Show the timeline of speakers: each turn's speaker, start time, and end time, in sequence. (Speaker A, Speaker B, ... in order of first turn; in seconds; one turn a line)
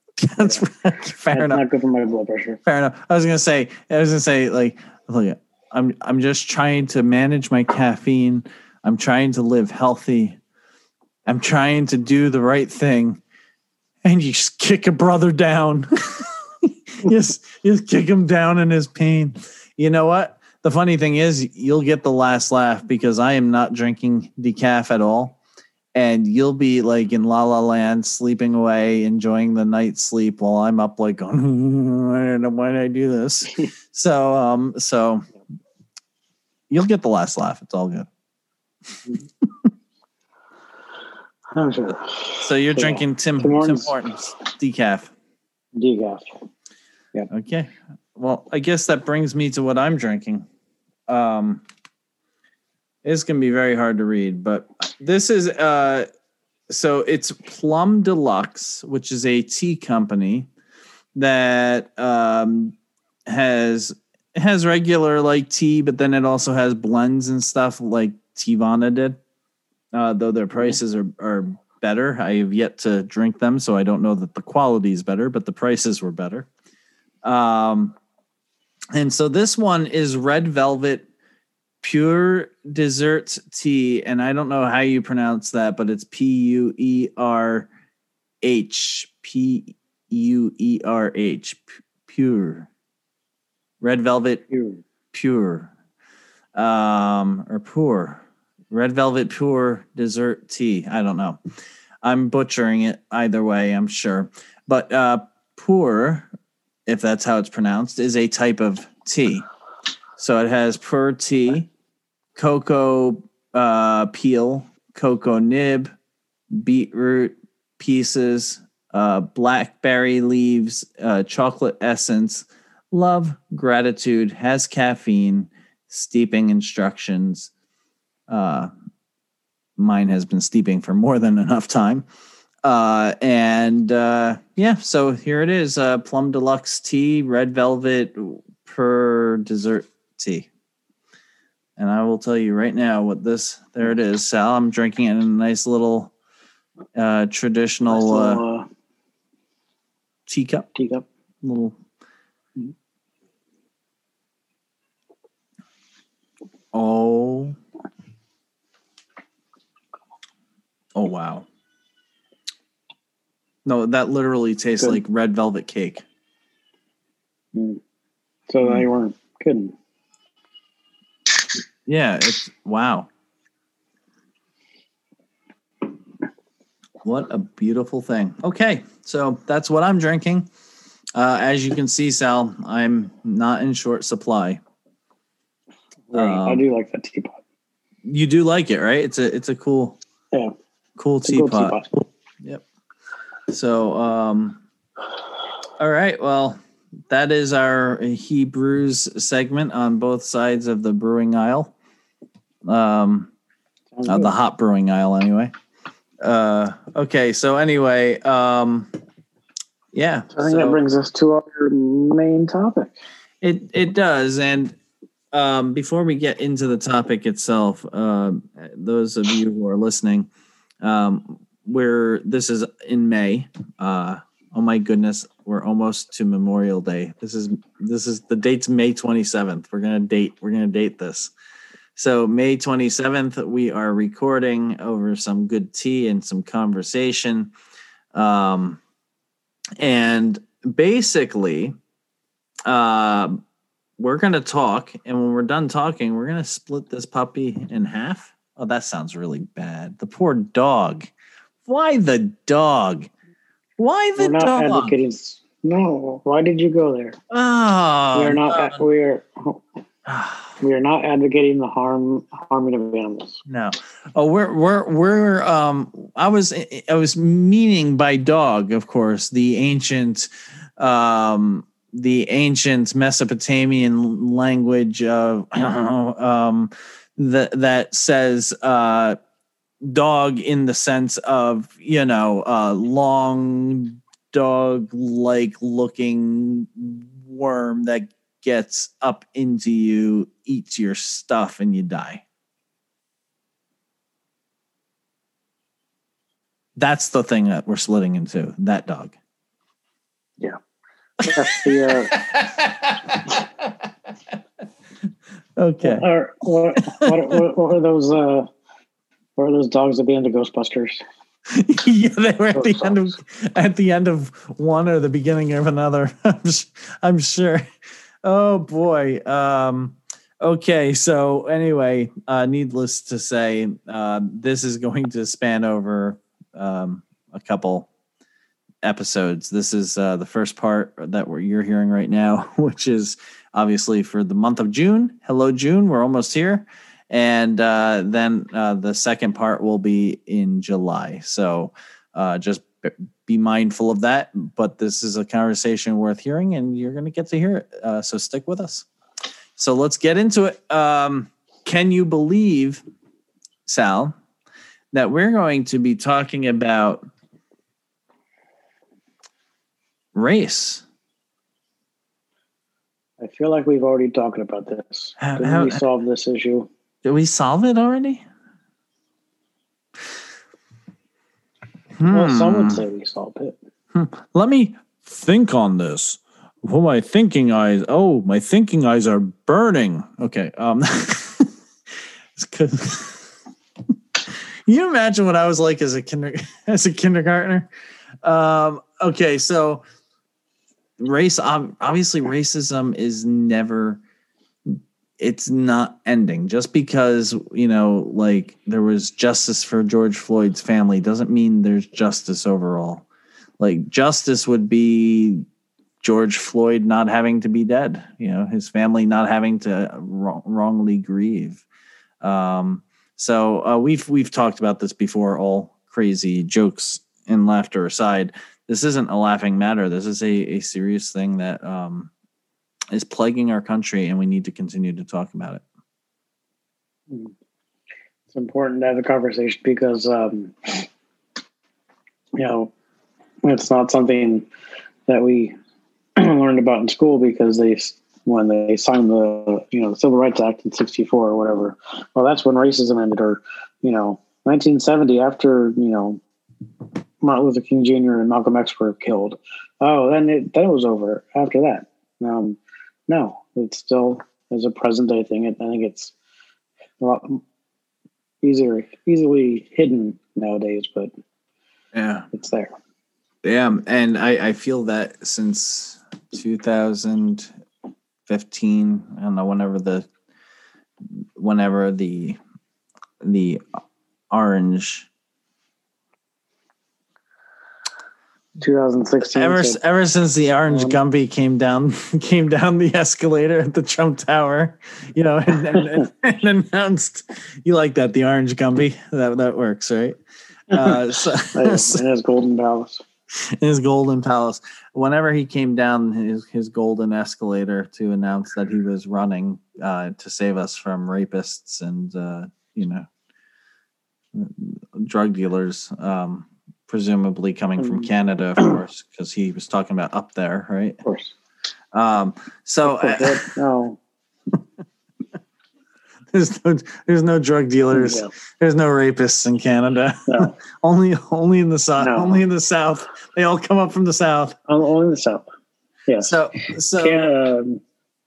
Speaker A: 0.2-1.6
Speaker B: 0.4-0.6
Speaker B: 1.3-2.6
Speaker A: 2.7-10.4
Speaker A: 11.2-13.2
Speaker A: 14.0-25.4
Speaker A: 25.9-35.3
Speaker A: 36.7-38.1
Speaker A: 39.4-39.7
Speaker B: 41.5-44.0
Speaker A: 42.4-45.1
Speaker B: 45.8-46.3
Speaker A: 47.3-50.5
Speaker A: 51.1-51.6
Speaker A: 53.0-56.1
Speaker A: 56.7-60.5
Speaker A: 61.1-62.8
Speaker A: 63.3-69.2
Speaker A: 69.9-76.5
Speaker A: 77.2-78.0
Speaker A: 78.9-81.1
Speaker A: 81.8-87.7
Speaker A: 88.4-92.7
Speaker A: 93.8-94.4
Speaker B: 94.5-94.8
Speaker A: 95.1-95.7
Speaker A: 96.5-101.4
Speaker A: 102.0-106.3
Speaker A: 106.9-109.5
Speaker A: 110.2-111.7
Speaker A: 112.3-115.9
Speaker A: 116.5-127.5
Speaker A: 128.3-128.7
Speaker A: 129.8-132.1
Speaker A: 132.6-140.5
Speaker A: 141.8-146.1
Speaker A: 146.9-148.4
Speaker B: 147.9-148.7
Speaker A: 150.3-150.7
Speaker B: 150.8-151.1
Speaker A: 151.4-151.8
Speaker A: 156.7-157.6
Speaker A: 161.0-161.5
Speaker A: 163.6-166.0
Speaker B: 167.5-167.8
Speaker B: 168.5-169.8
Speaker A: 171.9-173.1
Speaker A: 177.0-180.5
Speaker A: 181.1-184.6
Speaker B: 186.1-187.4
Speaker A: 186.1-186.6
Speaker A: 188.1-190.0
Speaker A: 191.0-192.6
Speaker B: 191.2-191.9
Speaker A: 193.5-194.6
Speaker A: 195.8-196.6
Speaker A: 197.1-201.7
Speaker A: 202.7-203.3
Speaker B: 203.9-204.3
Speaker A: 204.0-205.5
Speaker A: 206.2-208.9
Speaker A: 209.9-210.8
Speaker B: 210.3-213.0
Speaker A: 213.4-214.8
Speaker A: 215.3-220.3
Speaker A: 220.8-231.3
Speaker A: 232.0-237.5
Speaker A: 238.1-238.8
Speaker A: 239.8-241.7
Speaker A: 242.7-243.4
Speaker A: 244.0-251.1
Speaker A: 251.7-253.1
Speaker A: 253.8-255.0
Speaker B: 254.2-257.2
Speaker A: 257.3-258.9
Speaker B: 258.1-259.6
Speaker A: 260.1-260.6
Speaker B: 260.6-263.4
Speaker A: 263.5-279.2
Speaker A: 279.8-292.2
Speaker A: 296.8-299.1
Speaker B: 301.2-302.1
Speaker A: 301.2-303.7
Speaker A: 305.6-306.1
Speaker B: 305.8-308.5
Speaker A: 306.8-307.4
Speaker B: 309.4-311.0
Speaker A: 311.5-317.7
Speaker B: 312.5-313.0
Speaker A: 318.2-327.9
Speaker A: 328.8-348.9
Speaker A: 349.6-352.8
Speaker A: 353.6-354.1
Speaker A: 354.9-357.1
Speaker A: 360.1-360.9
Speaker B: 363.2-366.7
Speaker A: 365.2-365.8
Speaker A: 367.0-368.2
Speaker A: 372.0-372.8
Speaker B: 372.1-373.6
Speaker A: 373.9-381.5
Speaker A: 382.4-383.3
Speaker A: 384.3-387.7
Speaker A: 388.2-389.8
Speaker A: 391.0-394.0
Speaker A: 394.7-403.1
Speaker A: 403.6-405.4
Speaker A: 406.0-411.6
Speaker A: 412.2-422.1
Speaker A: 422.9-425.6
Speaker B: 427.1-427.3
Speaker B: 428.3-430.9
Speaker B: 432.4-432.7
Speaker B: 433.4-434.5
Speaker B: 435.1-435.5
Speaker B: 436.1-446.2
Speaker B: 447.2-456.1
Speaker B: 457.0-457.4
Speaker B: 458.4-461.1
Speaker A: 461.9-462.3
Speaker B: 462.3-462.7
Speaker A: 463.4-467.5
Speaker A: 468.2-470.1
Speaker A: 471.1-472.4
Speaker A: 473.2-473.8
Speaker A: 474.3-475.1
Speaker B: 478.6-479.8
Speaker A: 479.2-490.2
Speaker B: 480.7-481.0
Speaker A: 490.7-492.0
Speaker B: 490.7-493.0
Speaker A: 493.4-503.1
Speaker A: 504.3-511.0
Speaker B: 507.8-508.1
Speaker B: 511.0-511.4
Speaker A: 511.9-513.5
Speaker B: 512.8-514.0
Speaker A: 516.3-524.6
Speaker B: 517.9-518.3
Speaker B: 520.3-520.5
Speaker B: 522.0-522.4
Speaker B: 524.7-525.5
Speaker B: 526.1-526.4
Speaker A: 526.2-527.3
Speaker B: 527.0-527.8